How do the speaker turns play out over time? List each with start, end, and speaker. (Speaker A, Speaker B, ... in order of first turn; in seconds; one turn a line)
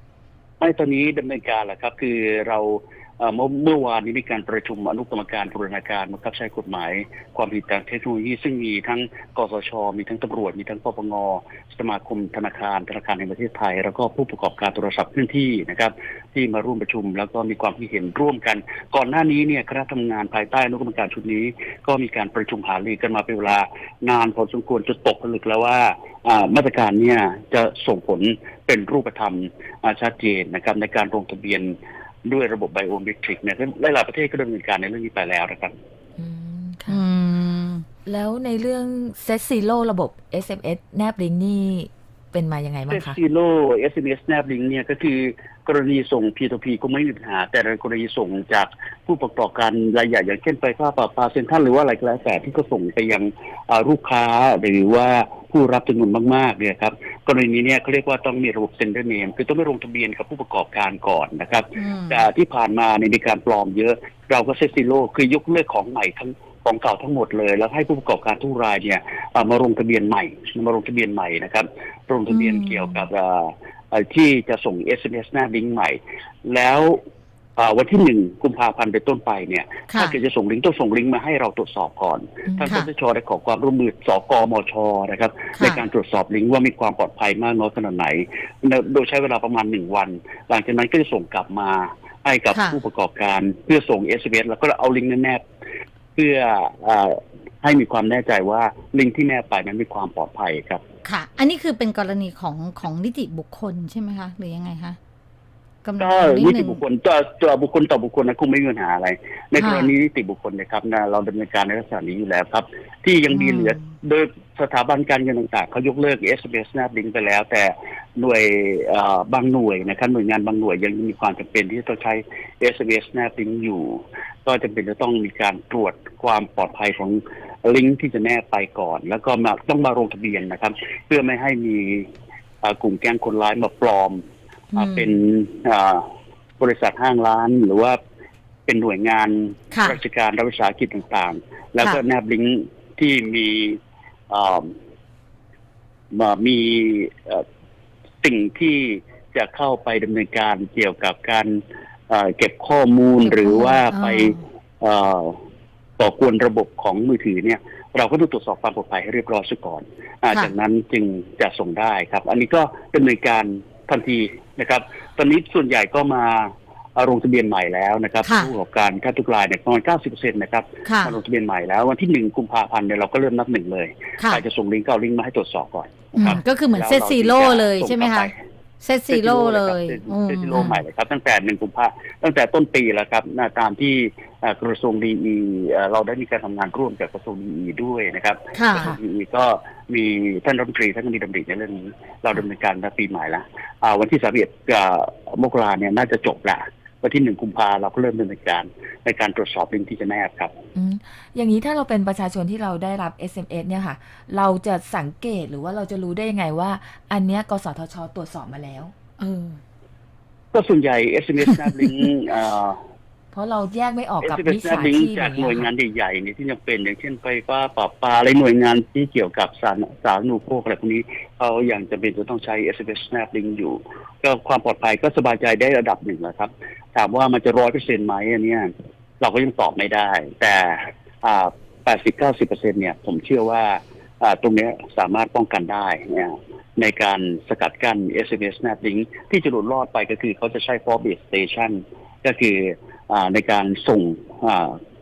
Speaker A: 0.6-31.7
Speaker A: 32.2-35.7
Speaker B: 36.2-37.0
Speaker C: 36.9-37.8
Speaker B: 38.0-43.2
Speaker A: 42.9-77.0
Speaker C: 61.8-62.2
Speaker C: 72.3-73.0
Speaker A: 77.6-95.4
Speaker C: 79.9-80.2
Speaker C: 82.6-82.9
Speaker C: 85.5-85.8
Speaker C: 92.5-92.8
Speaker A: 96.2-100.8
Speaker C: 101.0-105.0
Speaker C: 105.8-106.8
Speaker A: 106.0-132.1
Speaker C: 109.5-109.9
Speaker C: 113.3-113.9
Speaker A: 132.6-134.2
Speaker C: 134.7-135.1
Speaker A: 134.7-136.1
Speaker A: 136.6-138.0
Speaker A: 138.7-143.8
Speaker C: 139.7-140.0
Speaker A: 144.3-144.7
Speaker A: 146.1-147.4
Speaker A: 148.2-155.4
Speaker C: 153.2-154.4
Speaker A: 156.0-178.4
Speaker C: 168.2-168.5
Speaker C: 170.8-171.2
Speaker C: 176.1-180.7
Speaker A: 179.1-200.5
Speaker C: 188.5-188.9
Speaker B: 200.8-208.9
Speaker C: 209.2-209.6
Speaker A: 210.5-212.8
Speaker B: 213.3-215.7
Speaker A: 214.2-244.8